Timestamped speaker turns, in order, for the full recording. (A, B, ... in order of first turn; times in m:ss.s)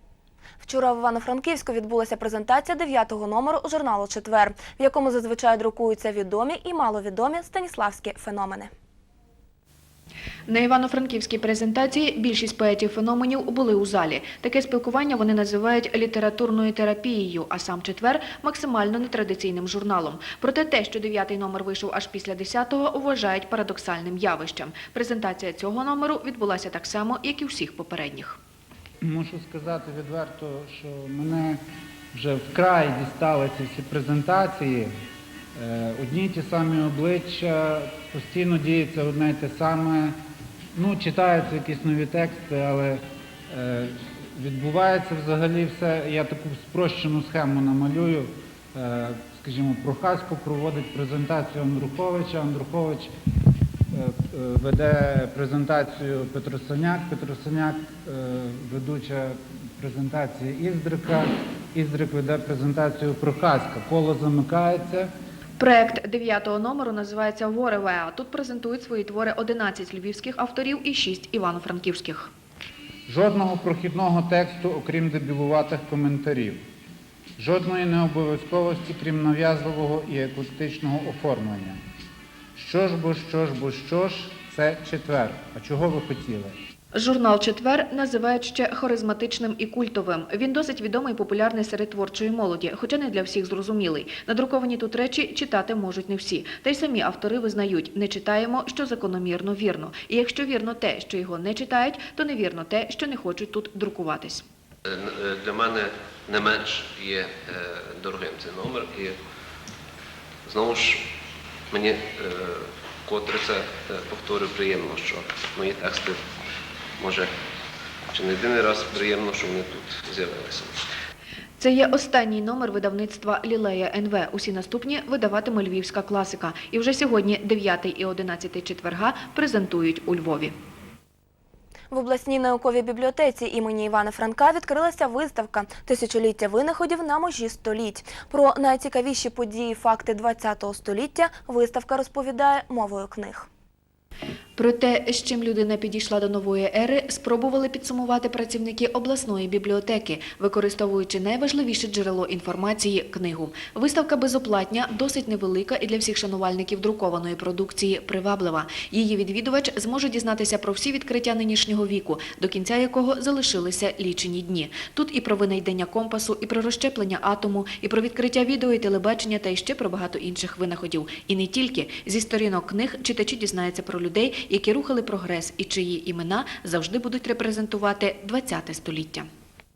0:00.6-0:08.7 A
0:10.5-0:28.4 B
0:29.0-0:31.6 C
0:32.1-0:34.9 C
0:35.6-0:40.2 C
0:40.8-0:53.1 C
0:53.9-1:05.1 C
1:05.6-1:12.3 B
1:13.1-1:16.6 C
1:17.4-1:21.8 C
1:22.6-1:26.6 C
1:26.9-1:44.4 B
1:44.9-1:49.2 D
1:50.5-1:51.1 D
1:51.7-1:56.2 D
1:57.0-1:57.3 D
1:58.1-2:00.8 D
2:01.6-2:10.5 B
2:11.9-2:23.5 A
2:24.6-2:59.3 B